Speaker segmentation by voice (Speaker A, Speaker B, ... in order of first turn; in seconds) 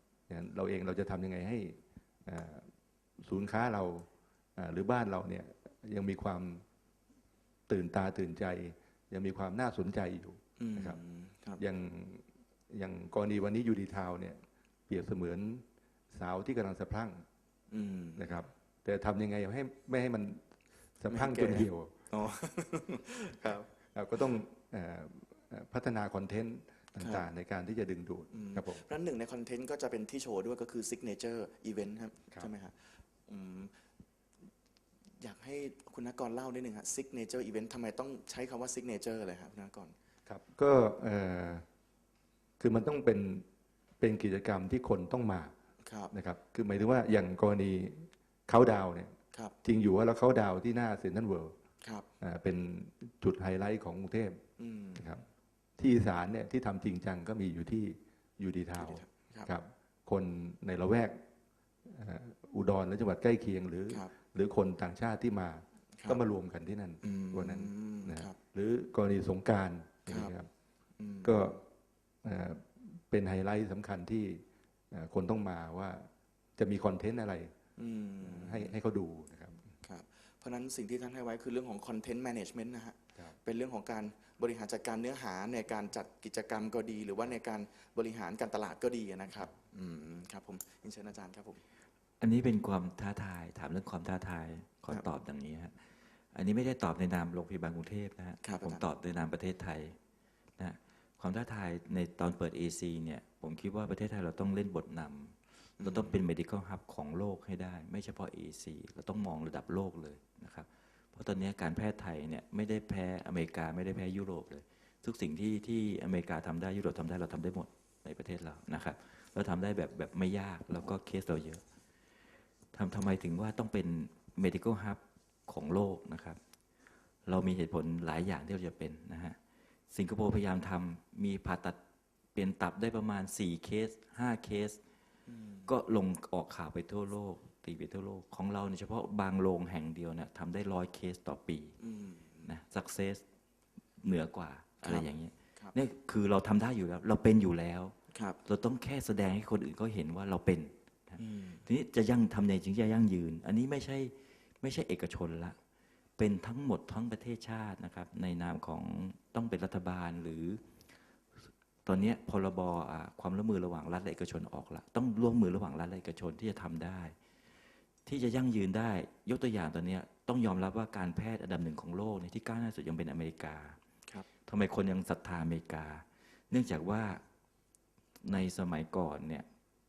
Speaker A: 0.3-2.7, 3.2-6.6, 7.7-11.0, 11.6-17.2, 18.2-20.4, 21.0-21.9, 23.9-28.8, 40.3-41.7, 42.6-43.5, 44.0-45.5, 46.1-51.6, 52.2-54.4, 55.0-55.2, 55.8-61.2, 61.9-70.5, 71.2-71.6, 72.2-77.5, 78.2-79.7
Speaker B: 10.6-11.6, 17.7-18.4, 21.1-23.7, 27.0-27.3, 28.3-32.8, 33.3-33.7, 35.2-39.9, 45.8-46.1, 54.6-55.2, 58.8-59.5, 67.0-68.4, 70.1-70.3, 71.0-71.5, 77.8-78.8, 79.8-91.6, 98.4-98.8, 105.8-106.2, 135.3-135.7, 141.8-142.5, 144.8-145.8, 151.2-151.7
Speaker C: 92.2-95.8, 96.3-100.0, 100.6-121.6, 122.7-126.4, 127.3-129.4, 129.9-131.8, 132.3-134.8, 135.7-141.7, 142.4-143.2, 144.0-155.6, 156.2-160.6, 161.9-167.2, 168.1-173.8, 174.5-177.2, 178.2-179.5